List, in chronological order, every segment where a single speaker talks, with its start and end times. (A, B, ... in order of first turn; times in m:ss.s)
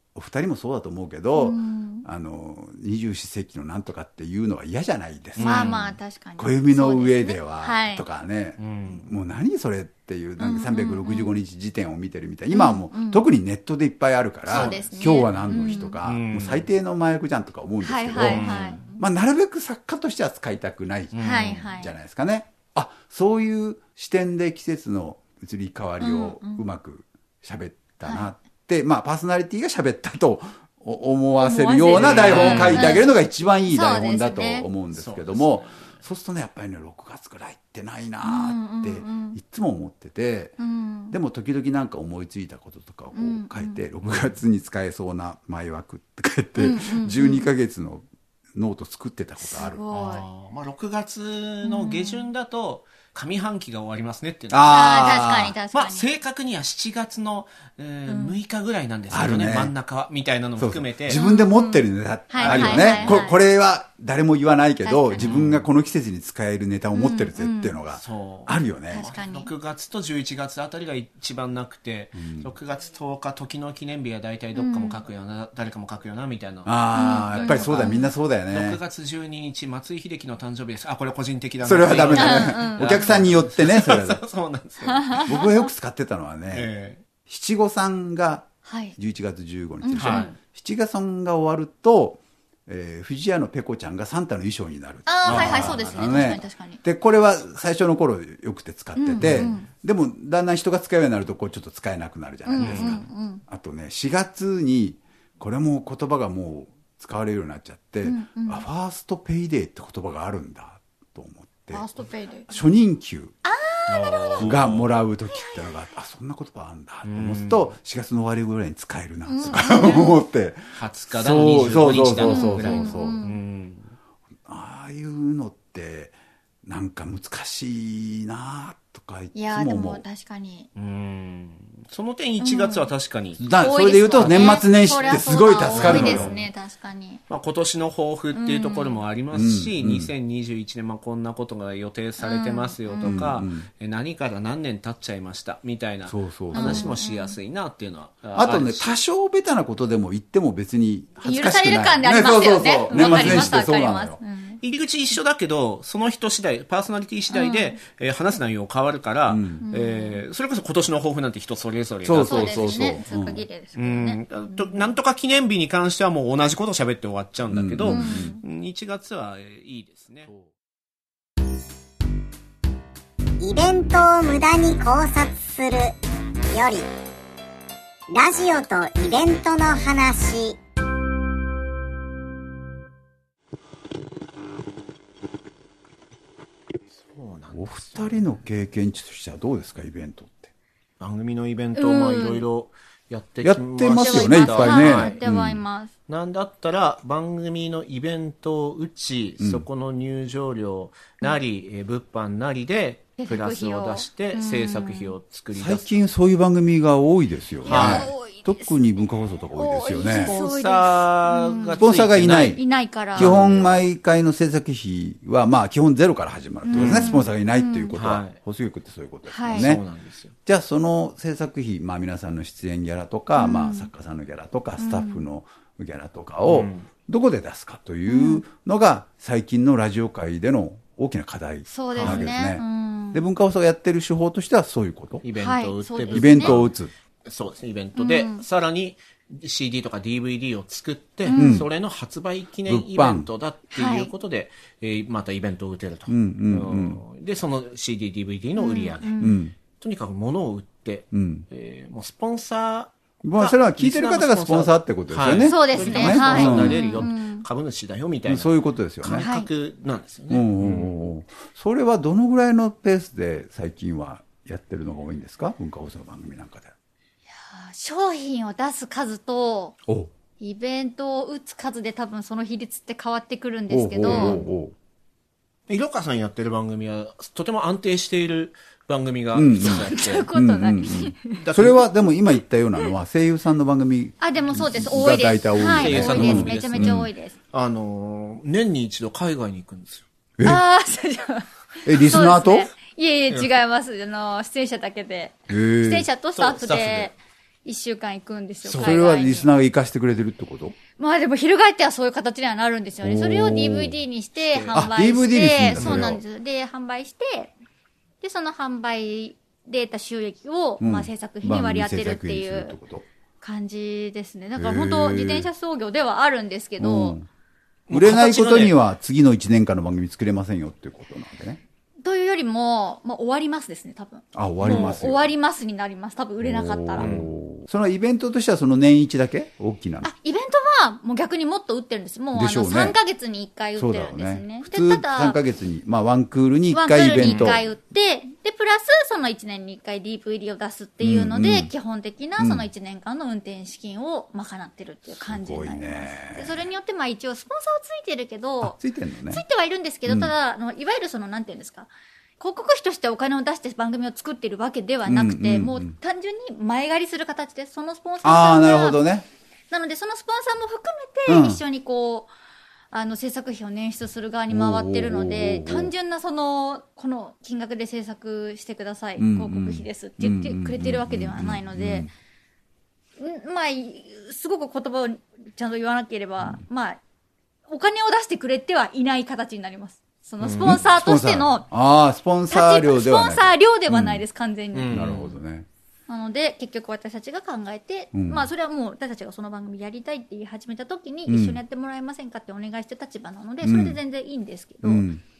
0:00.2-0:05.8 A
0:01.4-0:02.1 B
0:05.4-0:06.0 C
0:05.4-0:08.0 B
0:06.4-0:40.6 A
0:08.6-0:09.1 C
0:10.4-0:11.3 B
0:12.5-0:13.2 B
0:14.5-0:16.0 B
0:14.5-0:16.7 C
0:17.8-0:19.0 B
0:18.2-0:18.9 C
0:21.1-0:21.7 C
0:21.2-0:22.0 B
0:26.0-0:26.6 B
0:28.0-0:28.3 B
0:31.4-0:33.1 B
0:31.9-0:33.0 C
0:33.7-0:34.7 B
0:34.9-0:36.0 C
0:38.2-0:39.4 B
0:40.6-0:41.2 B
0:41.1-0:49.8 A
0:43.1-0:43.8 B
0:46.6-0:47.5 B
0:49.4-0:50.2 B
0:49.9-0:54.9 C
0:51.6-0:52.3 B
0:54.5-0:55.6 A
0:54.7-0:56.1 B
0:55.7-1:01.2 C
0:58.1-0:58.4 B
0:59.1-0:59.7 A
1:00.6-1:09.1 A
1:01.1-1:03.4 B
1:02.4-1:03.3 C
1:04.8-1:05.3 B
1:05.2-1:05.7 C
1:06.9-1:07.8 B
1:07.9-1:25.4 C
1:08.9-1:09.5 B
1:12.2-1:12.5 A
1:14.6-1:15.0 B
1:16.6-1:18.8 A
1:16.9-1:18.1 B
1:21.6-1:24.2 A
1:22.2-1:23.1 B
1:24.9-1:25.4 B
1:25.2-1:26.7 A
1:26.5-1:27.0 C
1:27.3-1:51.9 A
1:28.7-1:29.0 B
1:29.8-1:30.3 B
1:30.0-1:30.4 C
1:35.1-1:36.8 B
1:35.2-1:36.1 C
1:39.0-1:39.7 B
1:39.2-1:39.6 C
1:42.5-1:43.4 B
1:42.6-1:43.0 C
1:48.0-1:48.6 B
1:51.7-1:52.5 B
1:52.5-1:53.3 A
1:53.4-1:54.5 B
1:53.9-1:54.9 C
1:54.4-2:03.2 A
1:55.3-1:55.7 B
1:57.0-1:57.7 C
1:59.3-2:00.2 B
2:00.8-2:04.0 C
2:02.2-2:03.4 B
2:04.5-2:10.0 A
2:09.3-2:10.7 B
2:10.8-2:13.4 C
2:12.4-2:12.9 B
2:13.4-2:16.3 A
2:13.6-2:17.2 B
2:14.2-2:16.5 C
2:17.3-2:29.0 C
2:18.3-2:19.0 B
2:19.3-2:20.1 A
2:22.2-2:23.2 B
2:23.0-2:23.7 A
2:26.1-2:27.0 A
2:26.5-2:27.4 B
2:28.4-2:34.2 A
2:31.2-2:34.6 B
2:32.9-2:33.6 C
2:34.6-2:43.0 C
2:37.3-2:37.8 B
2:39.3-2:39.6 A
2:39.6-2:40.2 B
2:42.0-2:43.4 A
2:42.2-2:44.9 B
2:43.8-2:50.3 C
2:47.5-2:48.3 A
2:47.8-2:48.4 B
2:53.4-2:56.0 D
2:56.5-2:56.9 D
2:58.1-3:00.6 D
3:07.0-3:08.3 C
3:07.5-3:10.5 A
3:11.0-3:15.2 C
3:11.8-3:12.5 B
3:13.4-3:15.6 A
3:13.9-3:15.9 B
3:16.1-3:26.0 C
3:19.4-3:19.7 A
3:23.2-3:25.1 B
3:25.5-3:30.3 A
3:27.6-3:28.9 B
3:27.7-3:28.1 C
3:29.5-3:31.8 B
3:30.2-3:33.8 C
3:31.8-3:32.6 A
3:32.5-3:33.3 B
3:33.1-3:39.8 A
3:36.6-3:38.0 B
3:36.7-3:37.2 C
3:37.9-3:38.4 C
3:39.3-3:39.7 B
3:39.5-3:40.3 C
3:40.5-3:55.2 A
3:43.4-3:43.9 B
3:44.8-3:45.2 B
3:46.4-3:46.9 C
3:48.1-3:48.4 B
3:51.7-3:53.2 B
3:52.0-3:52.3 C
3:55.2-3:56.7 C
3:55.4-3:56.6 B
3:56.1-3:56.9 A
3:57.3-4:20.9 C
3:58.0-3:58.4 B
4:01.3-4:01.6 B
4:01.3-4:01.7 A
4:02.7-4:03.3 A
4:03.7-4:04.1 B
4:06.1-4:07.0 A
4:08.6-4:09.4 B
4:09.2-4:09.5 A
4:11.1-4:11.5 A
4:13.2-4:17.1 A
4:15.4-4:17.4 B
4:18.3-4:19.3 A
4:19.2-4:19.5 B
4:20.3-4:26.7 A
4:27.4-4:29.8 B
4:30.4-4:34.4 B
4:33.7-4:34.7 A
4:34.1-4:34.5 C
4:35.7-4:40.3 C
4:39.3-4:47.1 A
4:39.6-4:41.4 B
4:41.3-4:41.9 C
4:44.2-4:47.4 B
4:45.6-4:50.0 C
4:50.4-4:59.5 B
4:51.8-4:52.7 A
4:55.5-4:56.1 A
4:56.4-4:57.1 C
4:58.6-5:00.8 A
5:01.0-5:07.5 B
5:03.0-5:04.0 A
5:04.4-5:04.8 C
5:04.7-5:06.2 A
5:05.7-5:06.1 C
5:08.2-5:12.8 B
5:10.8-5:13.1 A
5:13.4-5:17.2 B
5:14.6-5:15.5 A
5:16.8-5:17.3 A
5:17.9-5:18.8 C
5:17.9-5:21.6 A
5:22.0-5:27.1 B
5:24.3-5:25.3 A
5:24.6-5:25.0 C
5:26.4-5:30.1 A
5:27.0-5:27.3 C
5:30.0-5:35.4 B
5:32.3-5:33.0 A
5:33.8-5:37.6 A
5:36.7-5:59.0 B
5:37.2-5:37.6 C
5:41.0-5:41.7 A
5:42.4-5:42.7 A
5:45.1-5:46.6 A
5:48.6-5:49.4 A
5:50.1-5:50.3 A
5:55.1-5:56.0 A
5:58.2-5:59.3 A
5:59.7-6:02.3 B
6:01.3-6:01.6 A
6:02.9-6:12.1 B
6:04.5-6:05.9 A
6:09.2-6:12.1 A
6:13.2-6:17.0 B
6:17.7-6:21.7 B
6:20.4-6:20.8 C
6:20.6-6:24.2 A
6:22.5-6:25.1 B
6:24.7-6:25.4 C
6:24.9-6:25.7 A
6:26.1-6:35.1 B
6:28.1-6:28.5 A
6:31.3-6:31.6 A
6:33.6-6:34.0 A
6:34.8-6:35.2 A